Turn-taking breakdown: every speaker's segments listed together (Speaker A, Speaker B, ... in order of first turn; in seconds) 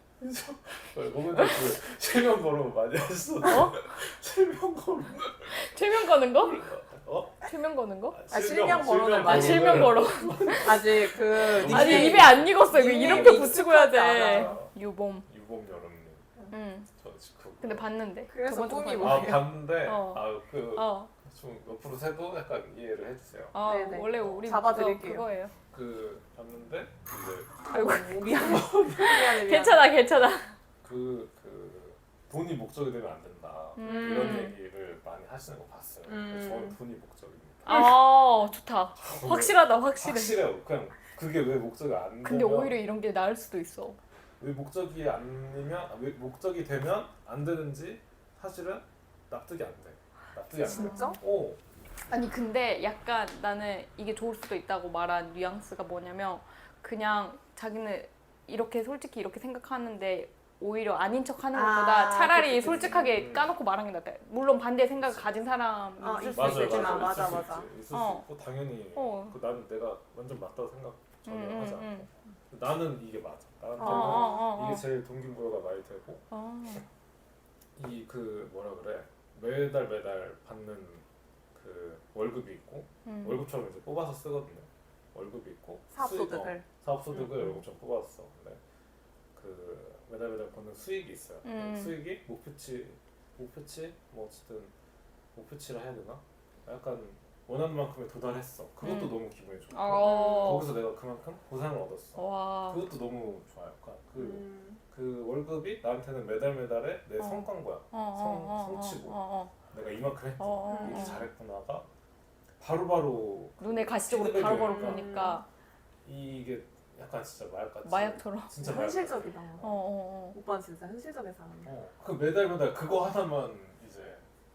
Speaker A: 0.2-7.5, 8.1-14.7, 15.2-16.3, 17.0-17.9, 19.0-24.5, 25.7-27.6, 30.8-37.9, 39.0-42.8, 44.4-51.6, 62.6-63.5, 65.0-65.3, 66.2-76.3, 77.8-88.6, 89.3-94.7, 95.3-109.2, 109.7-111.9, 112.6-115.3, 116.0-119.5, 121.7-124.2
Speaker B: 1.3-1.6, 3.4-3.8, 5.5-6.7, 7.4-8.2, 9.2-15.2, 16.5-16.9, 17.6-21.1, 23.5-25.5, 27.7-30.5, 33.8-34.6, 37.6-40.4, 42.2-44.0, 50.7-51.2, 52.1-67.3, 67.9-68.2, 68.9-69.3, 71.2-72.1, 73.8-74.9, 76.3-76.8, 83.0-83.4, 91.4-92.0, 98.8-100.7, 102.2-102.8, 107.2-109.5, 110.4-111.2, 113.6-115.5, 117.8-118.5, 119.6-120.4
Speaker C: 8.3-10.0, 10.6-14.6, 18.3-19.5, 23.6-25.3, 27.7-29.9, 33.8-34.5, 36.0-36.8, 50.6-51.2, 61.5-63.1, 66.0-67.7, 73.8-74.5, 85.9-86.7, 100.0-100.6, 104.2-104.8, 110.7-111.2, 114.6-115.4, 118.6-119.8, 120.3-121.7